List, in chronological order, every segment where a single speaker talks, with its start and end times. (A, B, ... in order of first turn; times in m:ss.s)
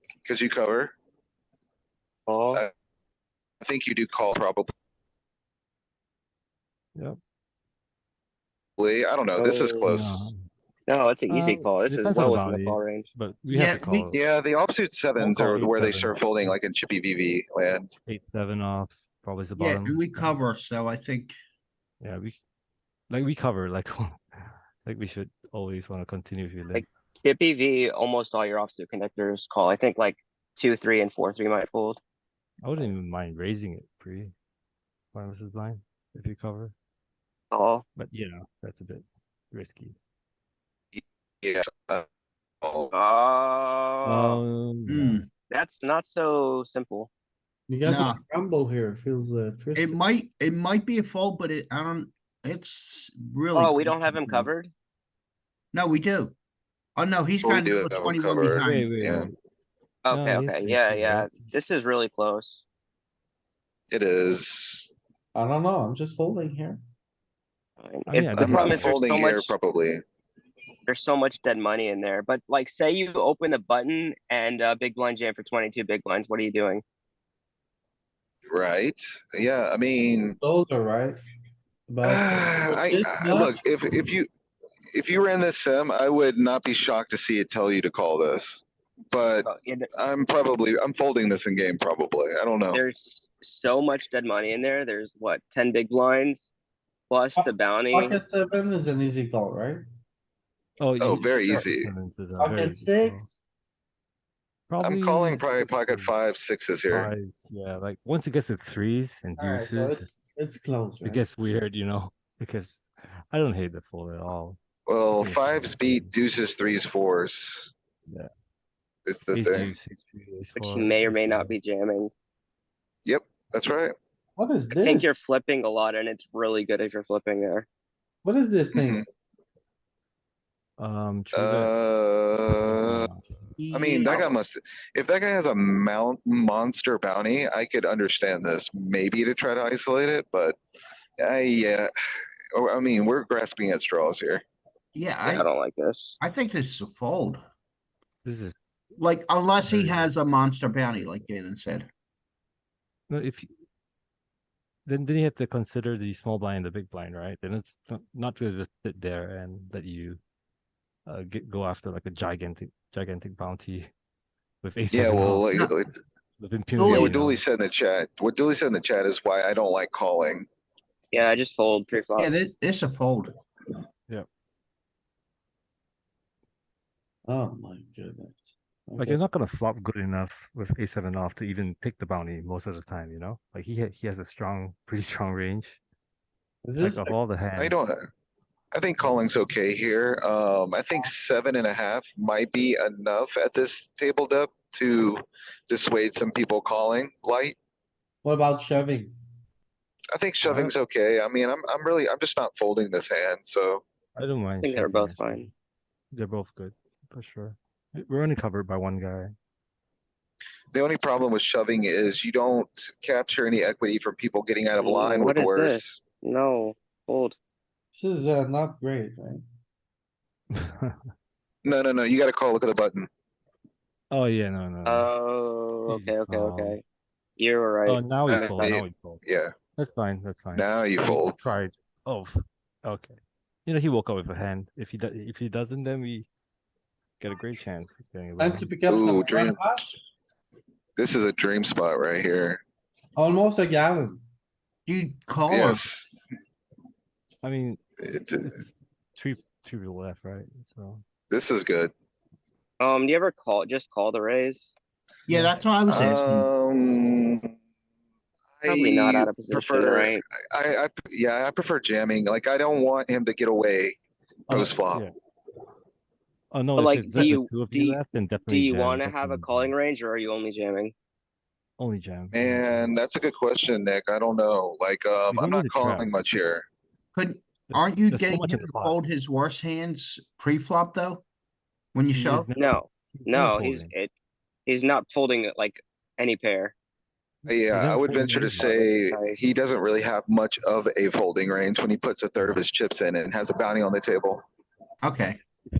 0:00.2-0:00.9 A
0:02.3-0:02.6 B
0:03.6-0:04.7 A
0:08.8-0:10.3 A
0:09.4-0:09.9 B
0:09.8-0:10.5 C
0:10.9-0:13.1 B
0:11.3-0:14.2 C
0:13.5-0:14.1 D
0:14.1-0:17.9 A
0:15.2-0:16.5 C
0:18.0-0:20.4 C
0:19.6-0:21.4 D
0:22.0-0:22.4 C
0:23.1-0:26.8 C
0:26.7-0:32.0 B
0:32.6-0:34.3 C
0:35.1-0:36.7 C
0:37.5-0:37.8 B
0:38.0-0:40.0 C
0:40.9-0:42.0 A
0:42.6-0:42.9 A
0:42.9-0:44.4 B
0:44.0-0:45.2 C
0:44.9-0:45.3 D
0:45.5-0:47.1 B
0:47.7-0:50.0 E
0:47.8-0:48.2 D
0:49.8-0:54.5 D
0:53.5-0:54.7 B
0:55.7-0:56.3 D
0:57.0-0:59.0 D
0:57.4-0:59.3 A
0:58.4-0:59.3 C
1:00.0-1:02.6 B
1:00.1-1:01.4 C
1:03.9-1:04.9 A
1:05.3-1:06.8 E
1:07.8-1:09.5 B
1:08.1-1:08.9 C
1:08.3-1:10.0 A
1:10.9-1:16.8 B
1:18.5-1:20.4 A
1:20.4-1:21.2 E
1:21.9-1:23.6 E
1:22.0-1:24.3 A
1:24.9-1:32.8 A
1:29.4-1:29.9 B
1:32.7-1:36.5 B
1:37.1-1:38.2 B
1:37.4-1:39.8 E
1:40.8-1:43.3 C
1:41.0-1:41.9 A
1:42.4-1:43.4 E
1:44.7-1:46.1 C
1:44.8-1:47.1 A
1:46.9-1:50.1 C
1:49.4-1:51.2 E
1:51.0-1:54.6 C
1:54.9-1:57.7 A
1:55.2-1:56.1 C
1:59.0-1:59.7 A
1:59.3-2:01.6 C
2:00.5-2:02.1 B
2:03.0-2:03.9 A
2:04.4-2:05.1 E
2:04.7-2:07.6 B
2:08.2-2:09.0 E
2:08.7-2:09.0 A
2:10.8-2:11.7 C
2:11.3-2:13.1 A
2:12.6-2:13.4 C
2:13.6-2:14.3 D
2:13.7-2:20.6 A
2:21.2-2:21.9 A
2:22.5-2:24.4 A
2:24.9-2:25.5 D
2:25.2-2:26.2 B
2:26.2-2:27.4 D
2:28.2-2:28.6 C
2:29.0-2:31.9 D
2:29.6-2:30.1 C
2:33.1-2:33.5 C
2:34.8-2:40.2 C
2:41.0-2:43.9 C
2:44.6-2:45.5 C
2:44.9-2:45.9 A
2:46.4-2:47.4 C
2:46.8-2:47.1 D
2:46.9-2:50.5 A
2:51.1-2:52.3 B
2:52.2-2:53.3 D
2:57.3-2:59.2 E
2:59.0-3:05.8 C
3:06.6-3:07.1 E
3:06.8-3:07.8 C
3:07.6-3:08.1 A
3:08.7-3:17.6 A
3:18.2-3:19.1 E
3:20.1-3:23.8 A
3:20.4-3:20.7 E
3:24.2-3:25.5 C
3:24.6-3:25.5 B
3:26.1-3:29.3 C
3:30.7-3:36.0 A
3:34.8-3:37.4 B
3:37.9-3:39.4 E
3:40.5-3:40.9 C
3:41.6-3:43.1 A
3:44.1-3:45.1 C
3:44.8-3:46.8 B
3:45.9-3:46.8 C
3:47.4-3:48.6 B
3:47.8-3:49.2 C
3:48.3-3:49.5 A
3:49.8-3:56.3 C
3:50.5-3:51.4 A
3:57.2-3:58.7 C
3:58.4-3:59.8 E
3:58.8-3:59.6 A
4:01.0-4:02.6 A
4:03.2-4:04.2 E
4:04.8-4:05.8 D
4:05.5-4:06.0 A
4:07.4-4:07.8 C
4:08.0-4:08.5 A
4:08.4-4:11.0 C
4:11.3-4:11.9 A
4:12.8-4:14.7 B
4:15.3-4:16.5 D
4:15.3-4:15.6 C
4:15.9-4:17.5 A
4:18.6-4:24.0 A
4:18.7-4:20.2 B
4:24.5-4:25.0 A
4:24.5-4:25.1 C
4:26.5-4:29.7 C
4:26.8-4:30.9 B
4:31.8-4:33.0 C
4:32.3-4:36.7 A
4:35.3-4:36.1 C
4:37.1-4:41.2 D
4:37.7-4:39.0 C
4:41.9-4:42.5 D
4:42.1-4:43.9 C
4:42.6-4:44.1 B
4:44.6-4:46.7 B
4:47.4-4:48.7 C
4:47.5-4:54.4 A
4:48.6-4:49.4 B
4:52.4-4:52.6 C
4:55.0-4:55.4 D